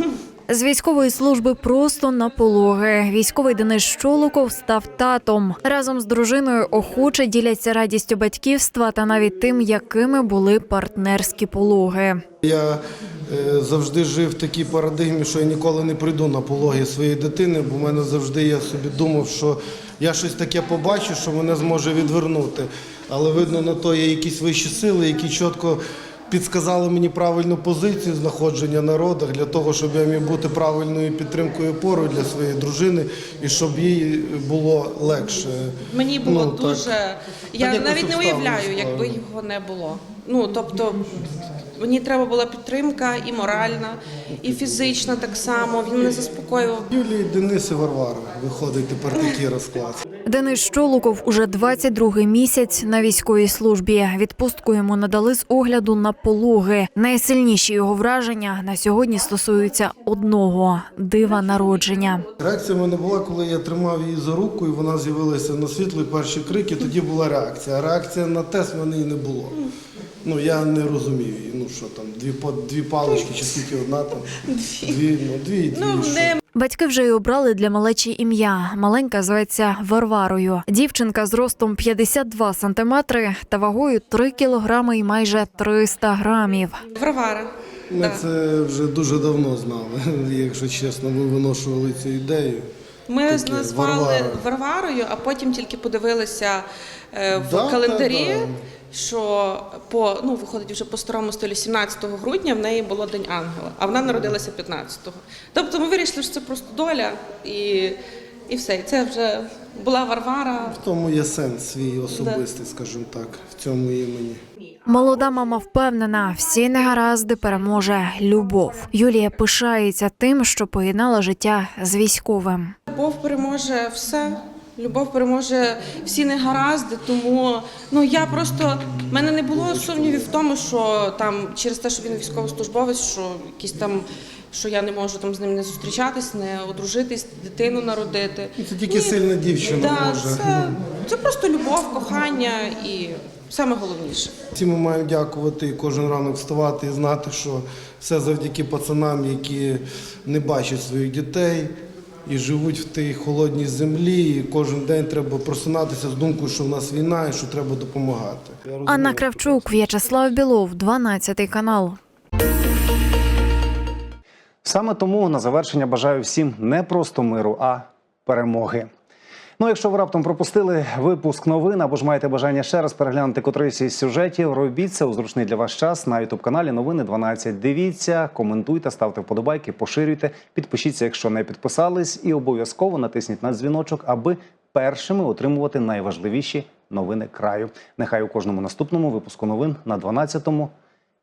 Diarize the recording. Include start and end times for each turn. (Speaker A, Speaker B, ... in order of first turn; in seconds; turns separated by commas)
Speaker A: 0.5-12.2, Speaker B: 12.4-36.9, Speaker C: 35.9-41.2, Speaker B: 37.6-39.2, Speaker C: 41.8-46.9, Speaker B: 44.4-44.8, Speaker B: 46.9-50.0, Speaker A: 50.2-62.2, Speaker B: 62.4-69.6, Speaker B: 70.2-74.3, Speaker B: 74.8-76.4, Speaker C: 75.7-76.4, Speaker A: 76.5-86.8, Speaker C: 87.0-88.2, Speaker B: 87.9-92.6, Speaker C: 93.1-108.0, Speaker B: 93.3-94.4, Speaker B: 97.3-98.6, Speaker C: 108.5-110.8, Speaker B: 110.7-114.4, Speaker C: 112.1-112.4, Speaker A: 114.9-122.7, Speaker C: 122.9-144.3, Speaker B: 129.1-130.3, Speaker B: 138.6-140.5, Speaker B: 144.6-151.7, Speaker B: 152.3-159.9, Speaker A: 158.9-162.0, Speaker D: 164.6-168.9, Speaker D: 169.6-190.7